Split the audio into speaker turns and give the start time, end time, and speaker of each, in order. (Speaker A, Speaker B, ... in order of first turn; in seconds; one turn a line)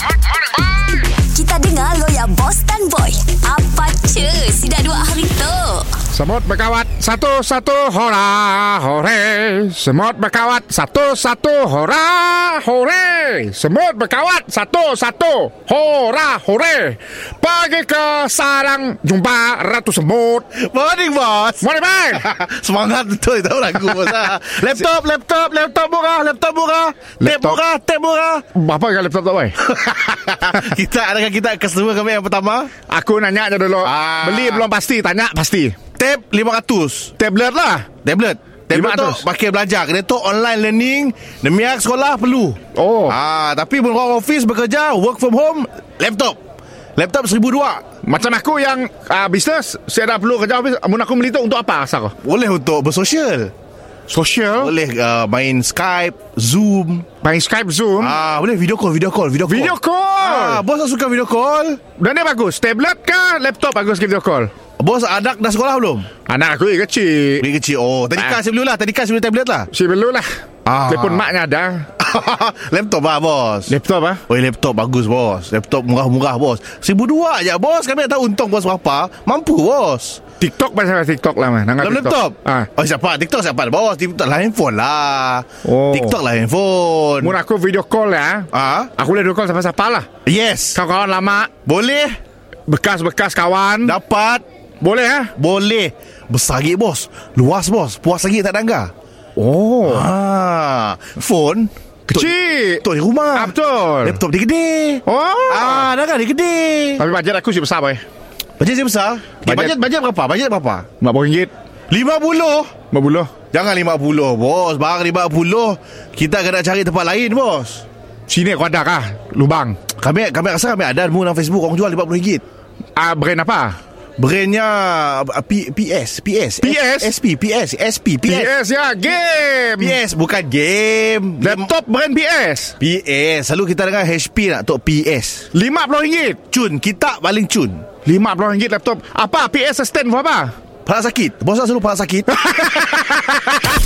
Speaker A: 1.1-6.0
Speaker B: 6.1-20.4
Speaker C: 20.5-28.4
Speaker B: 21.6-22.2
Speaker B: 27.2-27.6
Speaker B: 28.5-29.6
Speaker C: 29.6-32.7
Speaker B: 32.9-35.8
Speaker C: 33.8-34.7
Speaker C: 36.0-37.1
Speaker B: 37.2-37.9
Speaker C: 38.0-46.4
Speaker B: 38.7-39.2
Speaker B: 42.7-43.1
Speaker C: 47.0-47.8
Speaker B: 48.0-52.1
Speaker C: 52.2-53.5
Speaker B: 54.1-54.7
Speaker C: 54.6-57.1
Speaker B: 57.2-58.1
Speaker C: 58.0-61.8
Speaker B: 59.4-60.6
Speaker B: 62.0-64.5
Speaker C: 64.8-66.1
Speaker B: 66.3-67.4
Speaker C: 67.4-69.7
Speaker B: 69.7-70.3
Speaker C: 70.6-71.3
Speaker B: 70.9-71.9
Speaker C: 72.0-73.7
Speaker B: 73.7-74.2
Speaker C: 74.3-80.2
Speaker B: 80.4-82.7
Speaker C: 81.8-87.3
Speaker B: 85.6-86.2
Speaker B: 87.2-90.1
Speaker C: 88.5-88.9
Speaker C: 90.2-90.8
Speaker B: 90.7-91.5
Speaker C: 91.7-92.2
Speaker B: 92.7-93.9
Speaker C: 93.8-94.4
Speaker B: 94.8-95.3
Speaker C: 95.3-98.9
Speaker B: 99.4-100.0
Speaker C: 99.8-107.0
Speaker B: 102.1-102.8
Speaker B: 103.3-104.2
Speaker B: 105.0-105.9
Speaker B: 107.0-108.0
Speaker C: 108.6-110.9
Speaker B: 109.4-109.7
Speaker B: 111.0-111.5
Speaker C: 111.9-112.7
Speaker B: 112.9-113.3
Speaker C: 113.5-117.8
Speaker B: 118.3-119.8
Speaker C: 120.0-122.4
Speaker B: 123.0-123.8
Speaker C: 124.2-128.5
Speaker B: 126.6-127.1
Speaker B: 128.2-130.0
Speaker C: 129.8-131.7
Speaker B: 131.4-132.7
Speaker C: 132.8-135.5
Speaker B: 135.5-136.4
Speaker C: 136.5-137.9
Speaker B: 138.0-140.5
Speaker C: 140.8-142.3
Speaker B: 142.3-143.7